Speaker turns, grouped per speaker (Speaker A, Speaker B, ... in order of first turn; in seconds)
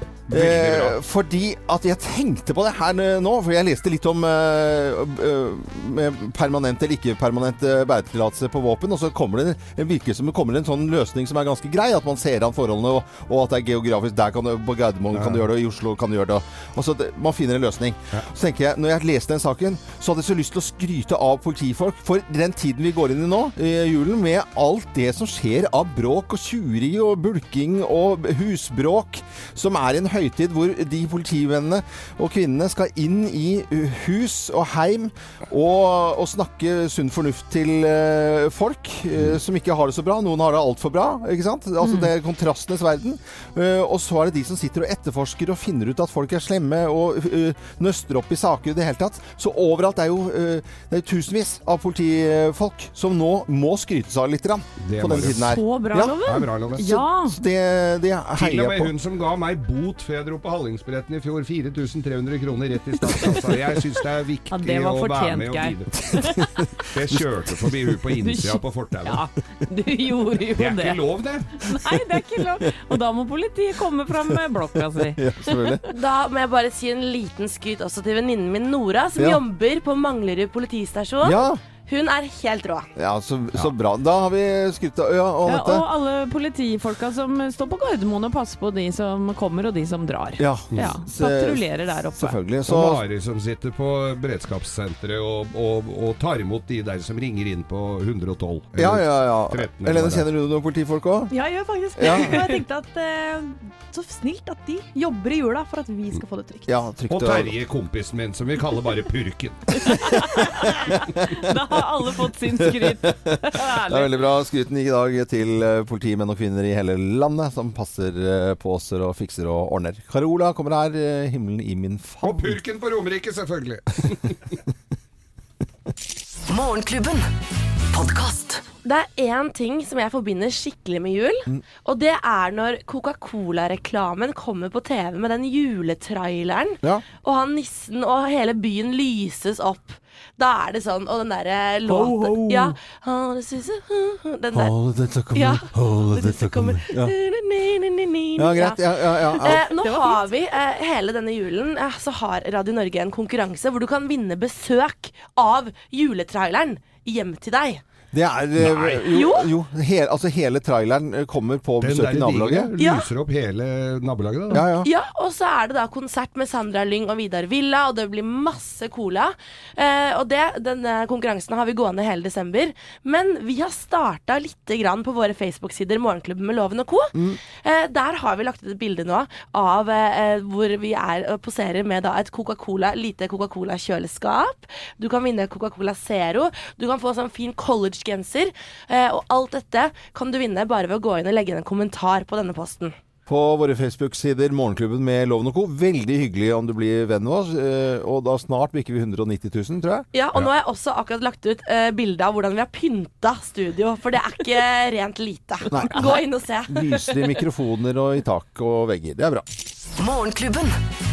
Speaker A: 0.3-1.0, 15.1-15.4, 54.8-55.5, 56.2-57.0, 58.4-66.0, 66.9-69.2, 70.6-71.5, 92.7-100.2, 107.1-109.7, 122.2-124.5, 158.6-159.0, 161.8-164.7
Speaker B: 0.3-56.1, 57.0-58.9, 63.1-63.4, 66.0-67.9, 75.2-75.8, 81.2-81.6, 83.0-85.8, 90.4-91.6, 92.1-93.0, 98.8-101.3, 102.0-102.5, 106.7-107.5, 109.9-111.5, 112.6-122.6, 141.9-142.8, 144.5-147.1, 148.3-149.7, 158.1-162.7, 164.5-164.9, 177.1-177.4, 193.3-200.1, 205.7-209.4
Speaker C: 55.4-57.4, 64.5-66.4, 68.2-71.0, 71.6-75.7, 85.5-92.4, 109.8-114.2
Speaker D: 75.9-82.9, 128.8-144.7, 145.3-157.8, 159.1-159.5, 162.8-163.1, 164.8-192.9, 200.1-207.3
Speaker E: 101.3-106.8, 149.6-150.0